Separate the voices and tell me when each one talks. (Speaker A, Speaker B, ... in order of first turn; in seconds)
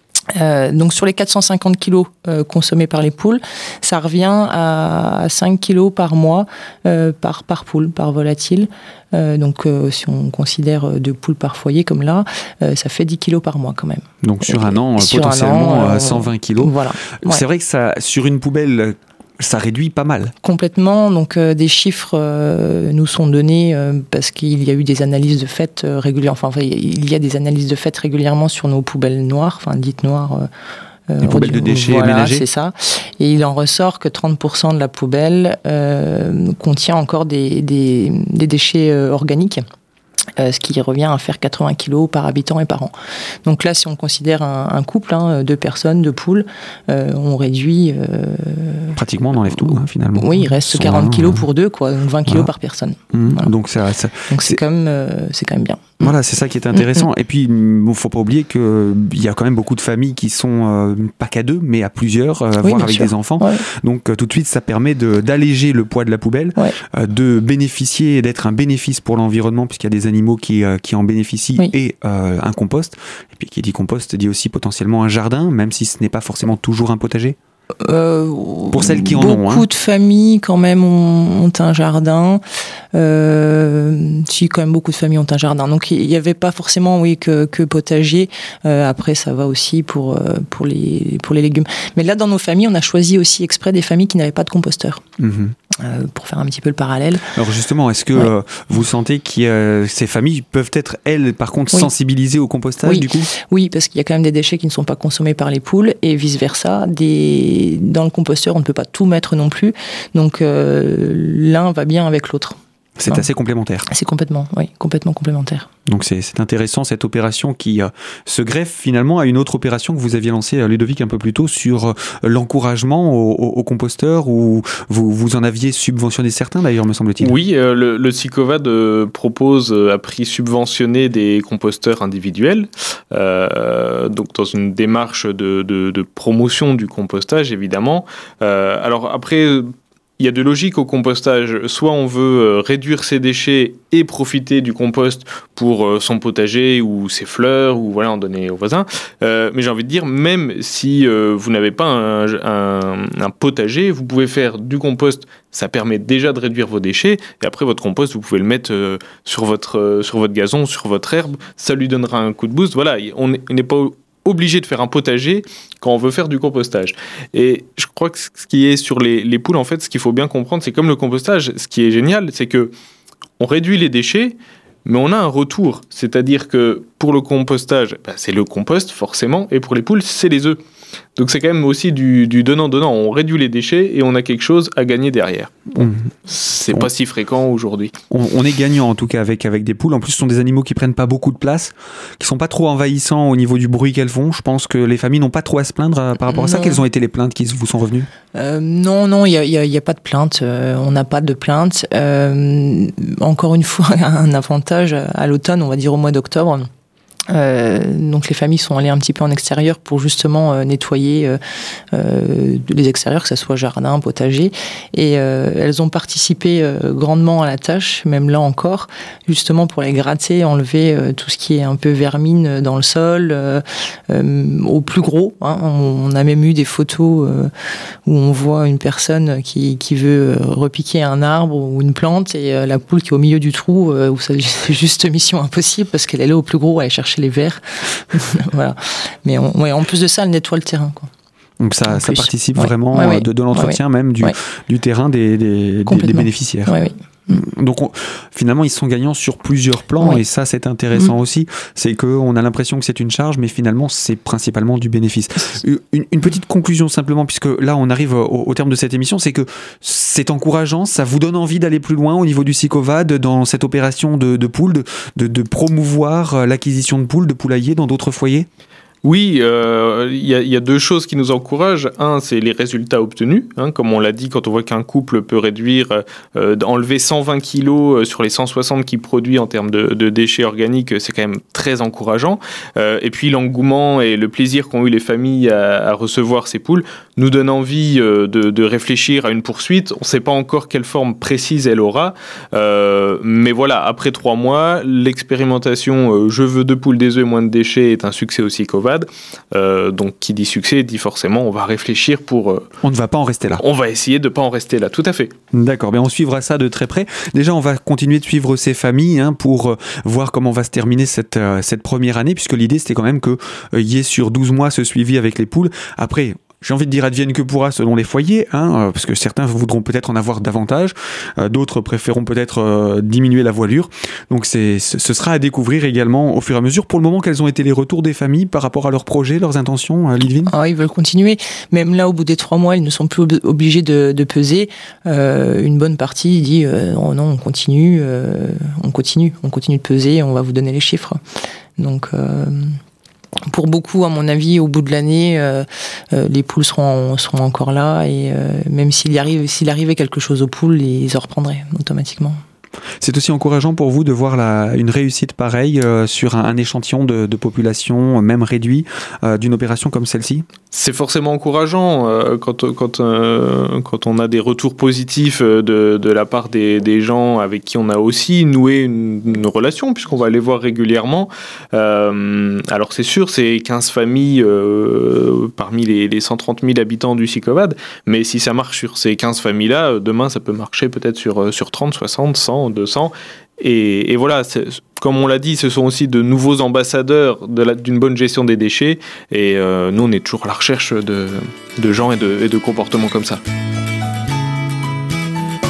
Speaker A: 0.3-17.4, 20.4-30.5, 31.1-39.6, 40.4-42.9, 43.4-49.0, 50.1-53.5, 54.3-56.1, 56.7-57.0, 62.6-63.6, 77.8-82.4, 82.9-95.0, 95.7-97.3, 102.8-113.2, 113.9-115.7, 196.3-196.8, 198.3-206.7, 207.3-211.4, 211.9-227.5, 228.1-241.1, 241.9-244.3, 245.9-247.4, 330.5-341.2, 341.8-342.8, 343.5-352.4
Speaker B: 14.2-20.3, 31.2-32.4, 49.0-51.4, 53.1-54.6, 56.0-77.4, 78.7-79.7, 95.2-95.5, 97.3-103.3, 113.0-113.8, 115.9-127.4, 185.7-186.1, 188.1-198.1, 241.6-246.7, 247.3-268.5, 302.8-303.6, 305.5-330.5, 353.0-360.4
Speaker C: 127.2-172.7, 173.4-180.6, 181.2-185.7, 186.3-187.9, 269.0-302.7, 303.6-305.3, 360.7-393.4